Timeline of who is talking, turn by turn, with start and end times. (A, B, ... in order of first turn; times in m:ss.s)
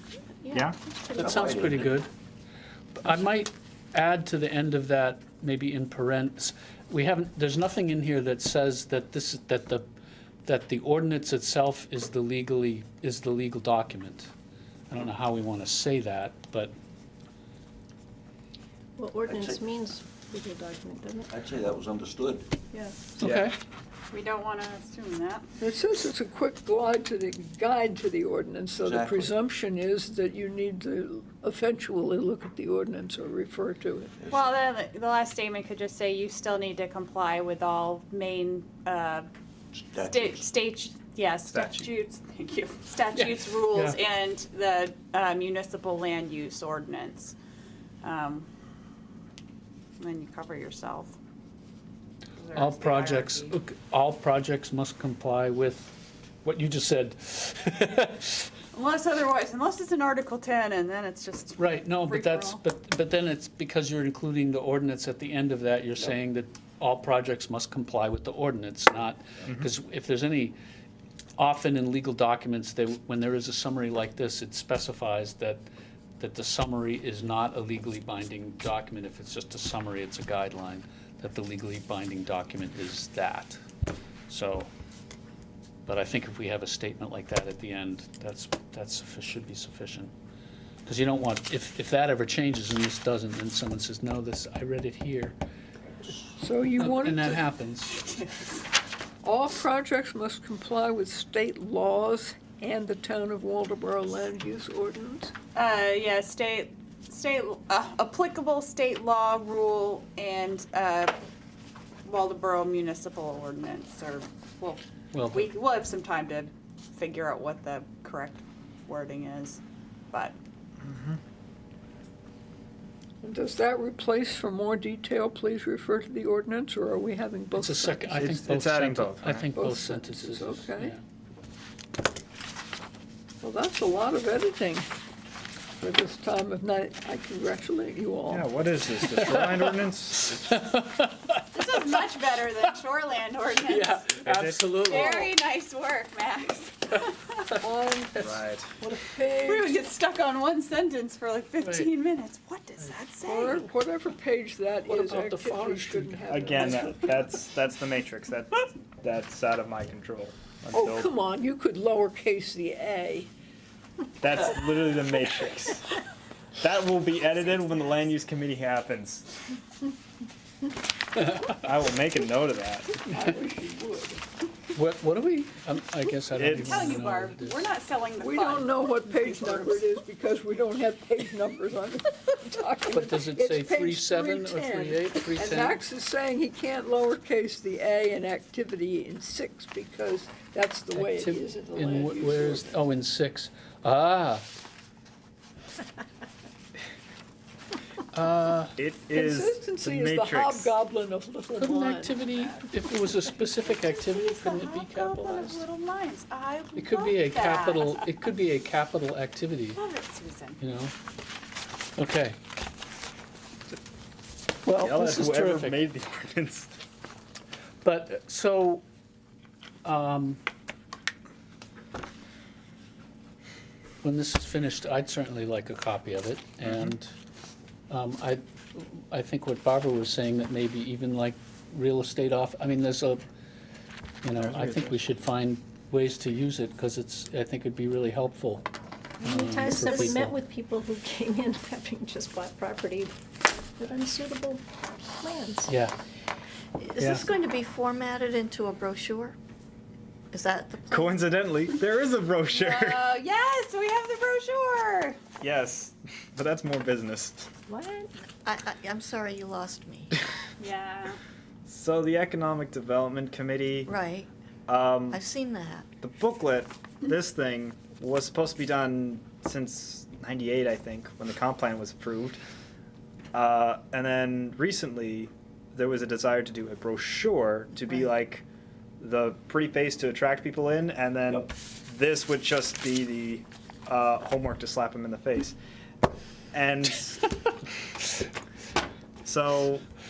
0:00.4-0:01.2 A
0:00.5-0:00.8 B
0:01.1-0:01.9 C
0:01.2-0:02.1 D
0:03.0-0:09.8 D
0:10.4-0:14.3 D
0:14.9-0:16.7 D
0:19.0-0:21.3 A
0:19.2-0:19.6 C
0:21.3-0:22.5 C
0:22.7-0:23.2 A
0:23.2-0:23.5 B
0:23.2-0:23.5 D
0:24.1-0:25.4 E
0:25.6-0:34.1 F
0:28.8-0:29.3 C
0:34.3-0:39.3 E
0:39.8-0:40.4 C
0:40.0-0:47.3 E
0:41.5-0:41.9 B
0:43.1-0:44.0 D
0:48.0-0:48.5 E
0:50.0-0:51.2 E
0:52.4-0:53.5 E
0:52.5-0:58.5 D
0:58.7-1:02.6 E
1:01.6-1:10.6 D
1:11.4-1:15.6 D
1:16.2-1:23.6 D
1:24.3-1:24.7 D
1:25.8-1:30.1 D
1:30.8-1:35.4 D
1:36.4-1:37.4 F
1:36.8-1:38.0 D
1:37.9-1:38.6 E
1:39.2-1:45.3 F
1:45.5-1:51.1 E
1:52.0-2:00.3 E
1:55.1-1:55.5 D
2:00.8-2:01.2 B
2:03.2-2:08.2 F
2:07.5-2:11.0 D
2:08.1-2:09.4 B
2:09.5-2:10.9 F
2:13.4-2:14.9 F
2:15.8-2:18.5 F
2:18.3-2:20.4 B
2:19.0-2:21.9 D
2:21.5-2:27.5 E
2:23.6-2:25.3 D
2:24.2-2:25.1 B
2:27.6-2:28.2 F
2:28.1-2:28.4 D
2:28.2-2:28.7 B
2:28.8-2:29.8 F
2:29.4-2:33.7 E
2:31.6-2:31.9 D
2:33.2-2:37.1 F
2:34.9-2:36.9 D
2:36.3-2:41.1 B
2:40.7-2:43.3 F
2:44.2-2:46.0 B
2:46.6-2:49.3 B
2:51.5-2:53.0 B
2:53.0-2:54.2 F
2:54.7-2:57.6 D
2:56.3-2:57.0 B
2:56.5-2:59.8 E
2:58.2-3:12.8 F
3:02.9-3:05.8 D
3:10.9-3:14.4 D
3:18.2-3:18.7 D
3:18.2-3:20.7 B
3:19.1-3:22.3 F
3:21.6-3:25.6 D
3:23.4-3:28.0 E
3:26.8-3:29.8 D
3:29.7-3:30.6 E
3:30.6-3:30.9 D
3:32.0-3:32.4 D
3:34.6-3:35.9 D
3:34.7-3:36.7 B
3:37.8-3:38.8 D
3:39.8-3:40.4 D
3:44.0-3:47.1 D
3:46.6-3:46.9 B
3:47.9-3:53.2 D
3:54.2-3:58.6 D
3:54.3-3:55.1 B
3:59.2-4:00.4 D
3:59.2-4:03.1 A
4:03.8-4:05.7 A
4:05.7-4:05.9 D
4:06.8-4:09.4 G
4:07.0-4:07.2 D
4:10.3-4:11.3 G
4:10.9-4:13.0 B
4:12.5-4:15.2 E
4:15.4-4:17.5 B
4:17.7-4:18.1 A
4:18.4-4:20.1 G
4:20.6-4:21.2 E
4:21.7-4:23.9 B
4:23.8-4:24.3 G
4:24.7-4:25.2 B
4:25.1-4:25.8 G
4:26.0-4:32.4 B
4:33.3-4:38.4 B
4:39.0-4:45.6 B
4:46.5-4:47.3 B
4:49.2-4:49.8 B